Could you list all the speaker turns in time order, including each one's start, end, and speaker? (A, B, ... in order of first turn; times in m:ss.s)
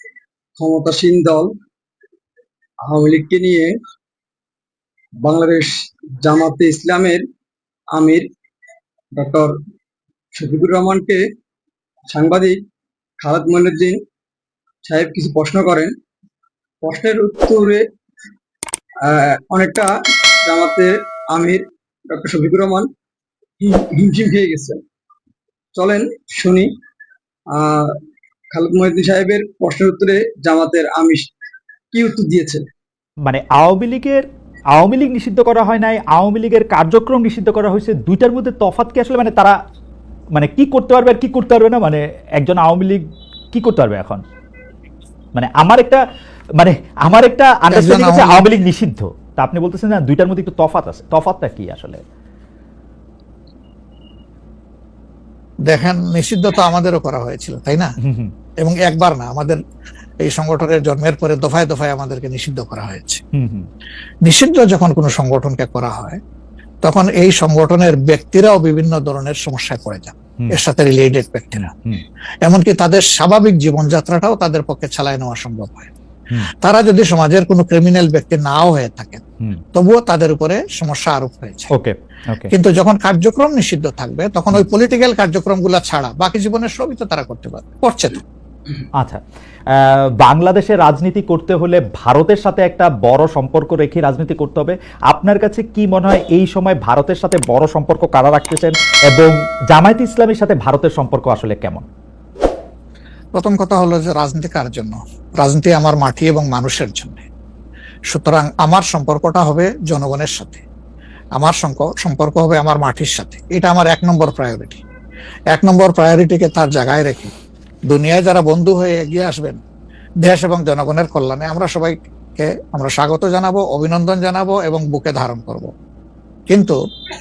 0:00.6-0:01.5 A
0:02.9-0:03.7 A
0:05.2-0:07.2 A
0:07.9-0:08.3 A
0:09.2-0:09.5 A
0:10.4-0:11.2 A
0:12.1-0:12.6 A
0:13.2-0:14.0 A
0:14.8-0:15.9 A
0:16.8-0:17.8 A
0:19.0-0:19.9 A
0:20.4-0:22.9 A
0:23.6-0:24.8 A
0:25.8-0:26.7 A
0:27.5-0:27.9 A
0:28.5-0:31.3 A
0:31.9-0:32.7 A
0:33.3-0:39.6 B
0:40.4-0:44.2 B
0:45.4-0:46.0 B
0:46.6-0:52.0 B
0:47.7-0:48.5 C
0:55.7-0:57.9 C
0:58.0-0:58.3 B
0:58.6-0:59.6 C
1:00.2-1:03.2 C
1:03.3-1:03.7 B
1:04.2-1:06.2 C
1:06.8-1:11.7 C
1:11.6-1:12.0 B
1:12.4-1:15.9 C
1:16.6-1:19.2 C
1:19.8-1:21.7 C
1:21.7-1:22.5 B
1:22.5-1:28.2 C
1:29.7-1:41.8 B
1:43.4-1:47.2 C
1:48.1-1:50.6 C
1:51.4-1:54.8 C
1:55.5-1:57.3 C
1:57.9-1:59.6 C
2:00.2-2:05.7 C
2:06.5-2:06.8 C